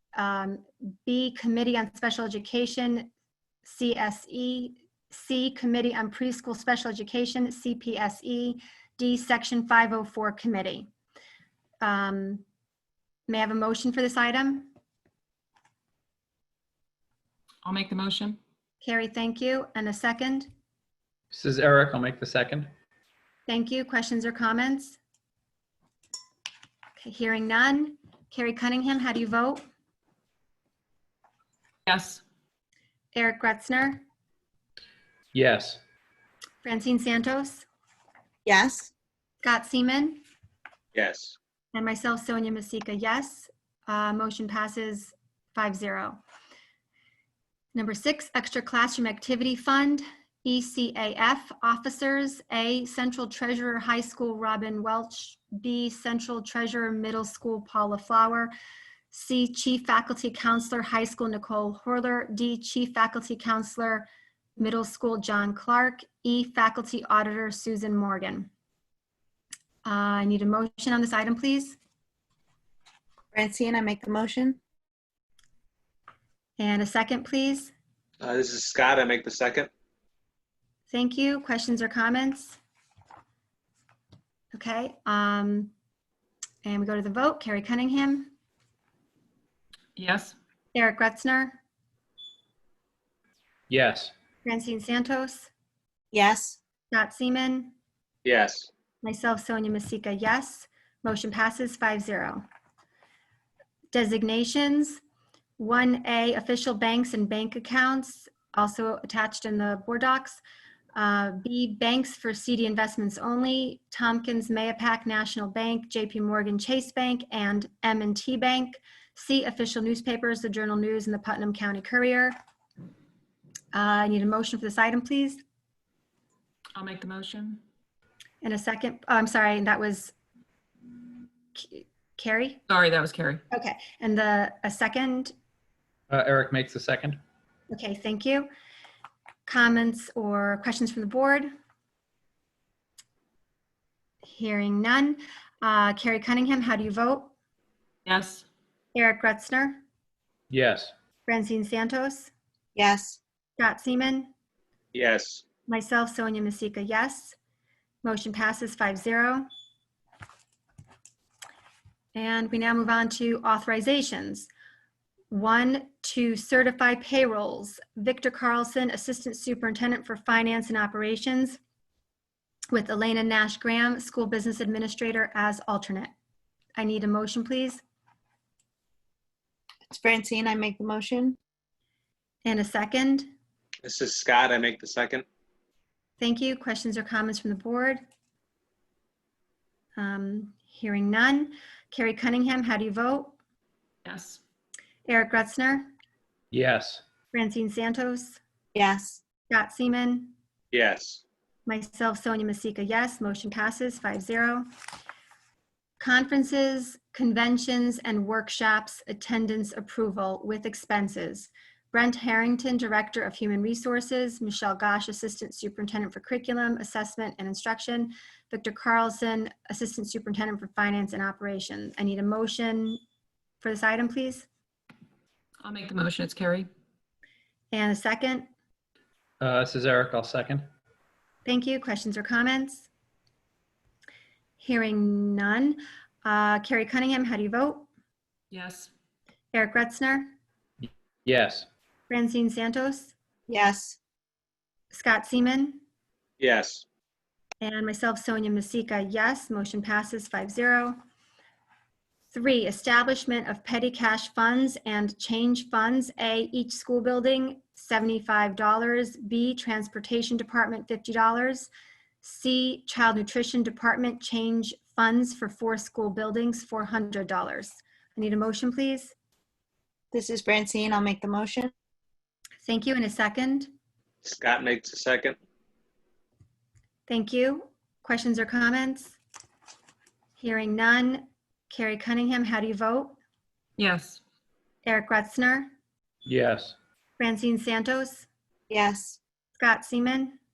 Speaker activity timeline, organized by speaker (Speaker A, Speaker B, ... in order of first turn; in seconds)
Speaker A: 0.2-3.1, 3.6-10.9, 11.8-12.4, 13.3-14.7, 18.8-20.5, 23.5-25.0, 27.0-29.6, 33.1-34.0, 36.6-37.7, 39.4-40.2, 41.7-46.2, 47.7-58.5, 59.1-68.5, 69.8-71.8, 76.6-77.7, 80.9-82.6, 84.5-85.7, 86.6-88.3, 90.7-91.6, 94.5-95.5, 96.9-97.7, 99.0-102.4, 103.9-105.0, 105.6-110.4, 111.0-122.4, 123.7-125.4, 128.4-130.1, 131.6-132.6, 133.5-135.3, 137.7-138.5, 139.5-141.5, 144.2-147.3, 148.9-149.8, 151.3-152.3, 153.6-154.3, 155.7-157.4, 158.0-159.5, 162.2-164.5, 165.3-171.6, 172.7-176.1, 176.8-177.8, 182.4-183.3, 186.2-188.0, 190.0-193.3, 195.1-195.9, 197.3-198.4, 199.5-200.3, 201.7-204.7, 206.0-223.0, 223.6-224.5, 227.7-228.5, 231.4-232.9, 234.6-237.9, 239.5-240.3, 242.1-243.1, 244.9-245.8, 247.6-251.0, 252.3-261.7, 262.2-269.1, 272.6-273.7, 277.1-279.2, 280.4-283.2, 284.9-285.7, 287.2-288.3, 289.6-290.4
Speaker B: 17.6-18.4, 31.9-32.2, 90.0-90.4, 126.8-127.6, 132.7-133.4, 148.1-148.4, 194.1-194.4, 225.6-226.7, 238.5-238.9, 283.8-284.2
Speaker C: 21.3-22.7, 35.3-35.8, 93.7-94.1, 136.1-137.2, 150.5-150.9, 196.5-197.0, 229.4-230.7, 241.2-241.7, 286.3-286.8
Speaker D: 38.5-38.9, 73.3-74.6, 96.1-96.6, 152.8-153.2, 179.9-181.4, 198.8-199.2, 243.5-244.0, 270.1-271.7, 288.7-289.2
Speaker E: 41.0-41.4, 78.2-79.7, 98.2-98.7, 154.9-155.4, 183.8-185.3, 200.7-201.2, 246.4-246.8, 274.2-275.4